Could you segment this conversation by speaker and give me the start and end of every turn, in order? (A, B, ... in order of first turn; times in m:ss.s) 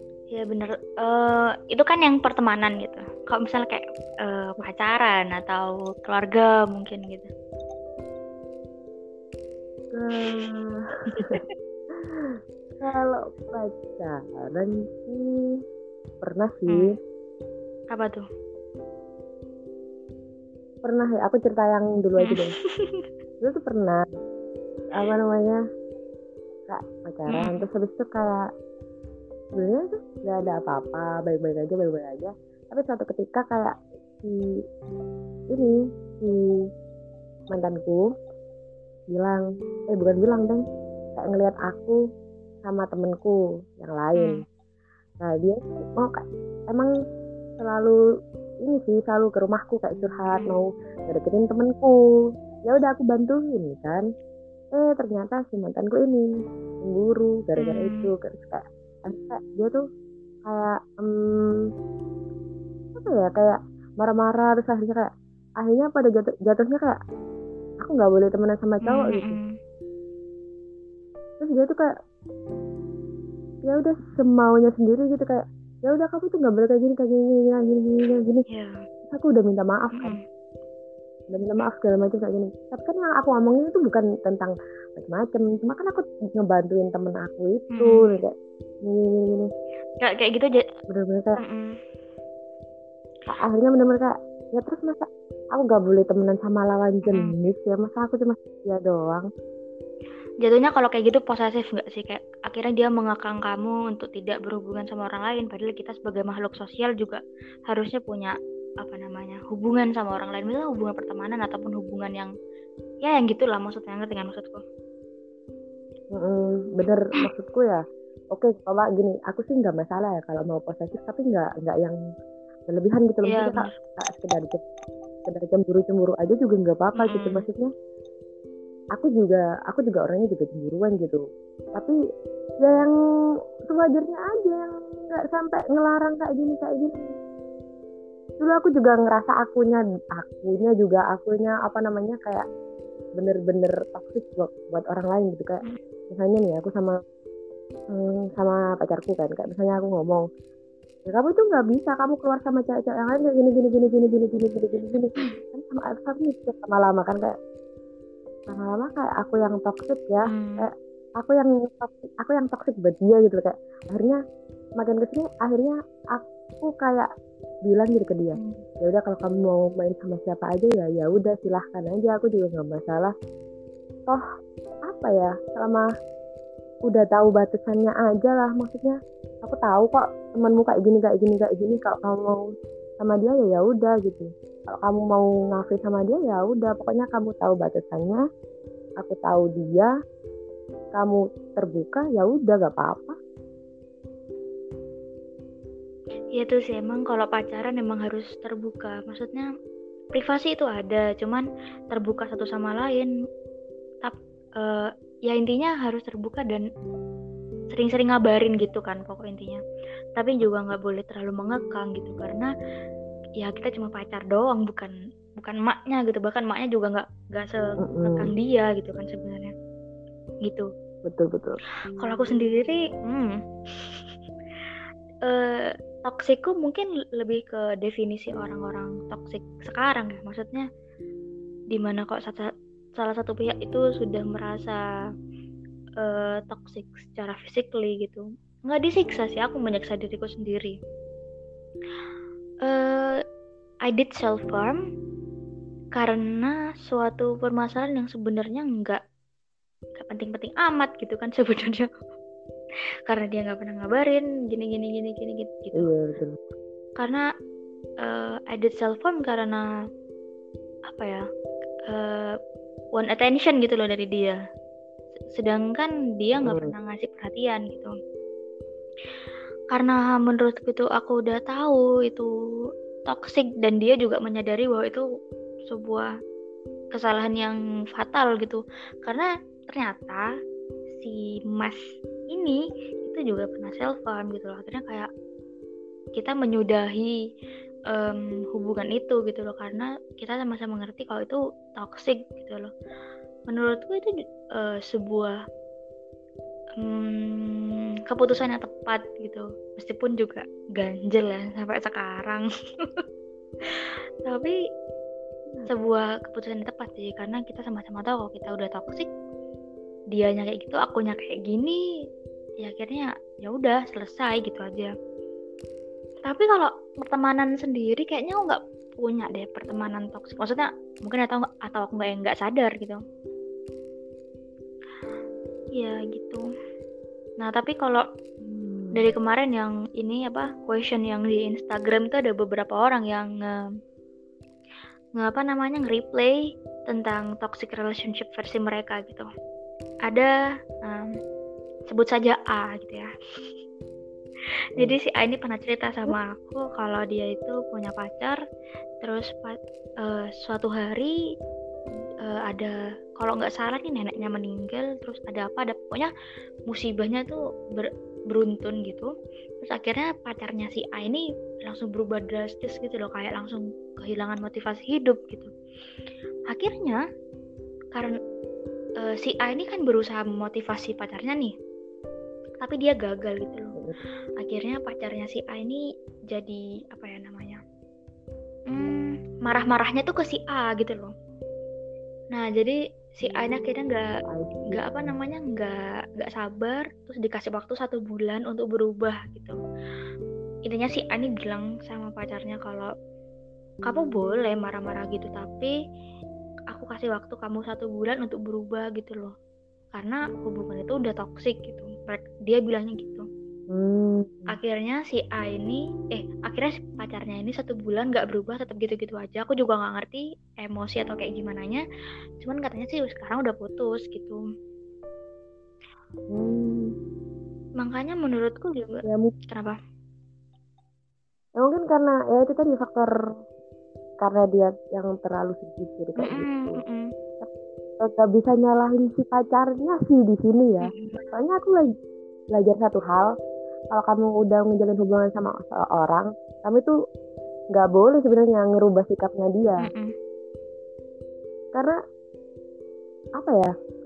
0:00.3-0:07.3 A
0:09.9-0:11.4 B
0:10.2-0:10.5 A
0:11.1-0:11.5 A
0:12.0-0:15.6 B
0:16.2-0:16.9 B
0:16.7-0:17.0 A
0:17.9-0:18.2 A
0:20.8-0:22.5 B
0:22.2-0:23.1 A
0:23.4-0:24.0 B
0:25.0-0:25.6 B
0:26.7-0:28.4 B
0:27.3-0:27.6 A
0:29.6-0:34.4 B
0:35.5-0:36.4 B
0:37.5-0:38.1 B
0:39.1-0:40.6 B
0:41.2-0:42.0 B
0:42.6-0:44.4 B
0:44.2-0:44.4 A
0:45.2-0:46.9 B
0:47.6-0:48.0 B
0:48.6-0:52.0 B
0:50.3-0:50.6 A
0:52.6-0:54.0 B
0:54.8-0:56.3 B
0:56.8-0:59.8 B
0:57.6-0:58.1 A
1:00.4-1:01.6 B
1:03.0-1:05.1 B
1:05.6-1:07.0 B
1:07.8-1:09.4 B
1:08.8-1:09.6 A
1:11.4-1:11.9 B
1:13.6-1:18.4 B
1:18.5-1:18.8 A
1:19.1-1:20.2 B
1:19.9-1:20.2 A
1:21.3-1:28.3 B
1:27.7-1:28.2 A
1:28.9-1:29.5 B
1:30.0-1:30.6 A
1:30.9-1:31.4 B
1:31.4-1:31.8 A
1:33.3-1:39.3 B
1:37.1-1:37.3 A
1:40.4-1:52.3 A
1:53.0-1:54.6 A
1:56.1-1:57.8 B
1:58.3-2:02.0 B
2:02.7-2:04.6 B
2:03.3-2:03.7 A
2:05.3-2:07.7 B
2:07.0-2:07.5 A
2:09.0-2:11.2 B
2:12.6-2:12.9 B
2:13.7-2:17.1 B
2:18.4-2:22.4 B
2:23.2-2:27.0 B
2:27.9-2:30.2 B
2:31.1-2:37.3 B
2:38.5-2:44.2 B
2:40.3-2:40.7 A
2:44.8-2:47.1 B
2:47.7-2:53.1 B
2:48.4-2:48.6 A
2:54.9-2:55.8 B
2:56.9-3:02.4 B
3:03.0-3:08.2 B
3:09.0-3:09.9 B
3:10.9-3:13.2 B
3:16.4-3:19.5 A
3:20.1-3:23.1 A
3:24.0-3:26.7 A
3:27.7-3:29.6 A
3:30.2-3:32.5 A
3:33.4-3:39.5 A
3:37.8-3:38.3 B
3:41.0-3:41.6 B
3:42.0-3:44.1 A
3:45.3-3:50.6 A
3:51.7-3:52.5 A
3:53.0-3:54.8 A
3:56.0-4:00.8 A
4:02.6-4:03.2 A
4:03.9-4:04.8 A
4:06.0-4:09.0 A
4:10.0-4:11.9 A
4:13.1-4:15.9 A
4:15.8-4:16.4 B
4:18.0-4:19.6 A
4:20.9-4:21.2 A
4:21.9-4:22.4 A
4:23.0-4:24.4 A
4:25.4-4:27.9 A
4:26.4-4:26.7 B
4:29.7-4:32.3 A
4:33.1-4:35.0 A
4:35.7-4:36.1 A
4:36.9-4:40.2 A
4:41.0-4:45.1 A
4:46.2-4:47.1 A
4:47.9-4:52.7 A
4:53.5-4:55.4 A
4:56.8-5:03.0 A
5:03.6-5:04.6 A
5:05.7-5:09.1 A
5:10.1-5:11.8 A
5:12.6-5:14.9 A
5:16.2-5:23.0 A
5:25.8-5:26.4 A
5:27.4-5:28.0 A
5:28.4-5:29.2 B
5:29.0-5:33.6 A
5:35.2-5:39.3 A
5:40.1-5:40.3 A
5:40.8-5:41.1 A
5:41.9-5:43.1 A
5:44.8-5:48.4 A
5:49.0-5:51.1 A
5:52.2-5:56.1 A
5:56.7-5:59.1 A
5:59.6-6:05.5 A
6:06.5-6:07.0 A
6:09.0-6:11.5 A
6:12.6-6:13.8 A
6:14.4-6:17.6 A
6:18.7-6:21.1 A
6:22.3-6:24.1 A
6:24.3-6:25.2 B
6:24.7-6:29.6 A
6:30.7-6:32.9 A
6:33.9-6:35.7 A
6:36.7-6:39.3 A
6:39.9-6:43.2 A
6:43.7-6:44.5 B
6:44.5-6:51.8 A
6:52.4-6:54.4 A
6:56.3-6:56.9 B
6:57.8-6:59.8 A
6:59.0-6:59.3 B
7:01.6-7:03.1 B
7:04.2-7:06.8 B
7:06.2-7:07.1 A
7:08.0-7:11.9 B
7:10.8-7:11.3 A
7:12.5-7:13.2 B
7:13.9-7:16.9 B
7:17.7-7:19.9 B
7:19.8-7:20.1 A
7:23.4-7:23.7 B